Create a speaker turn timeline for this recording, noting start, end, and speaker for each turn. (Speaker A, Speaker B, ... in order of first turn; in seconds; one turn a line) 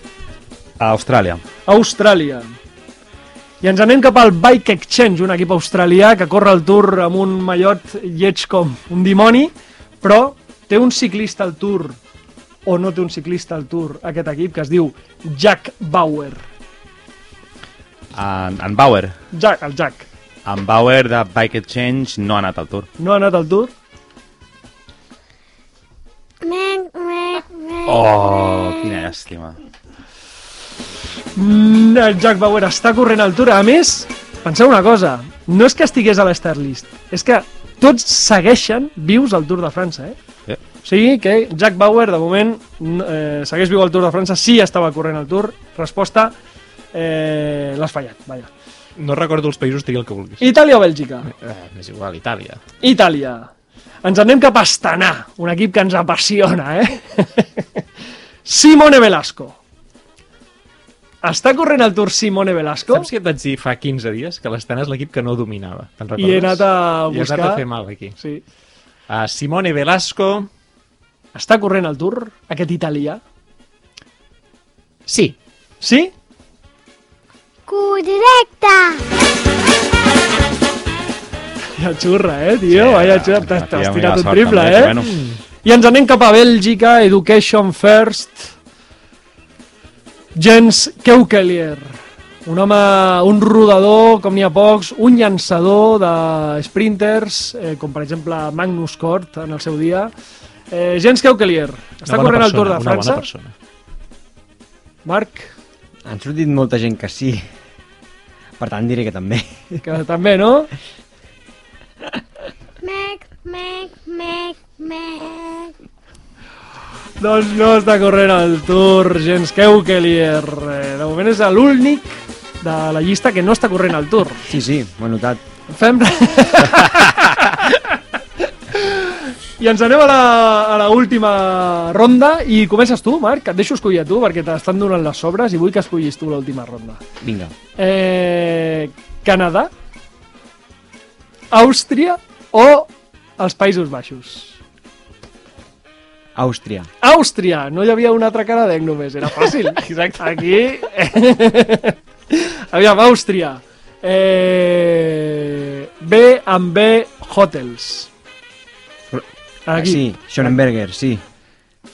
Speaker A: 0.8-1.4
Speaker B: 1.6-2.5
Speaker B: 3.6-12.0
Speaker B: 12.7-16.4
Speaker A: 18.1-19.2
Speaker B: 19.3-20.1
Speaker A: 20.4-22.9
Speaker B: 23.0-23.7
Speaker C: 26.4-29.0
Speaker A: 27.9-29.6
Speaker B: 31.4-40.1
Speaker B: 40.8-46.3
Speaker B: 46.9-48.5
Speaker D: 49.0-50.5
Speaker B: 50.4-51.3
Speaker D: 51.3-52.6
Speaker B: 52.8-53.5
Speaker B: 54.0-57.8
Speaker B: 58.4-59.6
Speaker B: 61.2-63.1
Speaker D: 62.9-68.2
Speaker B: 66.2-67.6
Speaker D: 69.1-70.5
Speaker B: 71.3-73.2
Speaker D: 75.1-75.3
Speaker B: 75.8-76.1
Speaker C: 77.7-79.0
Speaker B: 81.8-85.0
Speaker A: 82.7-85.2
Speaker D: 85.0-85.4
Speaker B: 85.6-88.5
Speaker B: 90.3-100.1
Speaker B: 100.7-103.2
Speaker D: 102.0-103.5
Speaker B: 105.0-105.5
Speaker E: 106.0-107.5
Speaker E: 108.6-109.8
Speaker B: 109.8-110.7
Speaker C: 112.8-115.7
Speaker B: 117.2-124.5
Speaker E: 124.5-125.4
Speaker B: 125.7-128.0
Speaker B: 128.7-137.0
Speaker E: 137.2-137.5
Speaker B: 137.8-139.7
Speaker B: 141.5-144.6
Speaker E: 146.3-146.9
Speaker B: 147.0-158.1
Speaker D: 149.5-150.4
Speaker E: 159.1-161.2
Speaker B: 159.7-160.5